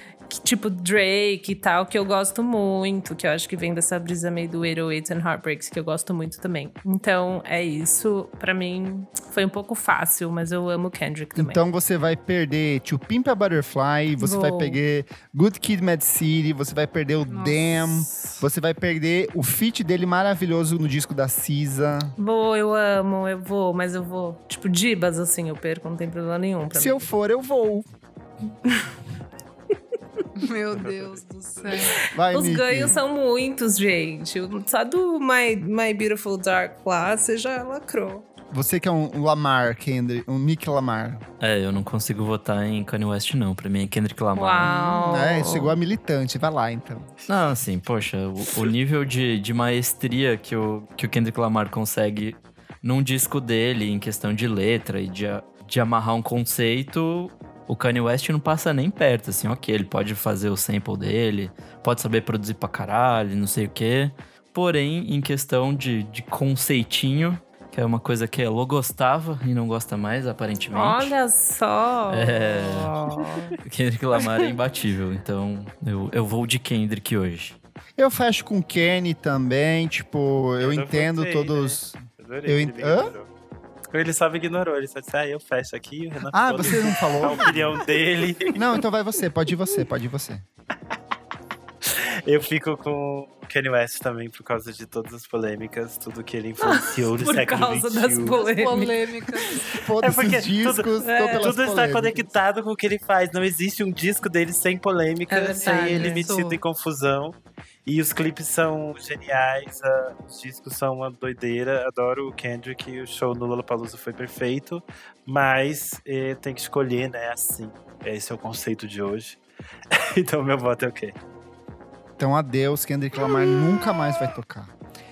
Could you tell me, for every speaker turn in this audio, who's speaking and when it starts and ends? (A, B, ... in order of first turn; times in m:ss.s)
0:00.3-0:11.6 A
0:11.4-0:22.1 B
0:14.2-0:14.8 A
0:17.3-0:18.4 C
0:22.2-0:27.1 A
0:26.8-0:27.9 B
0:30.4-0:32.0 C
0:30.7-0:31.8 D
0:32.1-0:33.0 B
0:32.3-0:38.3 A
0:38.5-0:41.2 B
0:41.4-0:44.7 E
0:44.4-0:45.7 A
0:44.6-0:47.1 B
0:47.3-1:11.1 E
1:10.7-1:13.5 A
1:12.1-1:13.0 E
1:13.6-1:17.6 E
1:14.2-1:14.4 A
1:18.0-1:23.1 B
1:20.6-1:23.3 D
1:23.9-1:28.7 D
1:26.3-1:27.8 B
1:28.6-1:30.4 B
1:31.9-1:38.4 D
1:36.6-1:39.0 A
1:38.3-1:39.8 C
1:39.7-1:42.3 B
1:40.0-1:59.4 D
1:41.0-1:41.5 A
1:45.3-1:46.2 A
1:45.6-1:46.6 C
2:00.0-2:01.2 D
2:02.2-2:04.7 B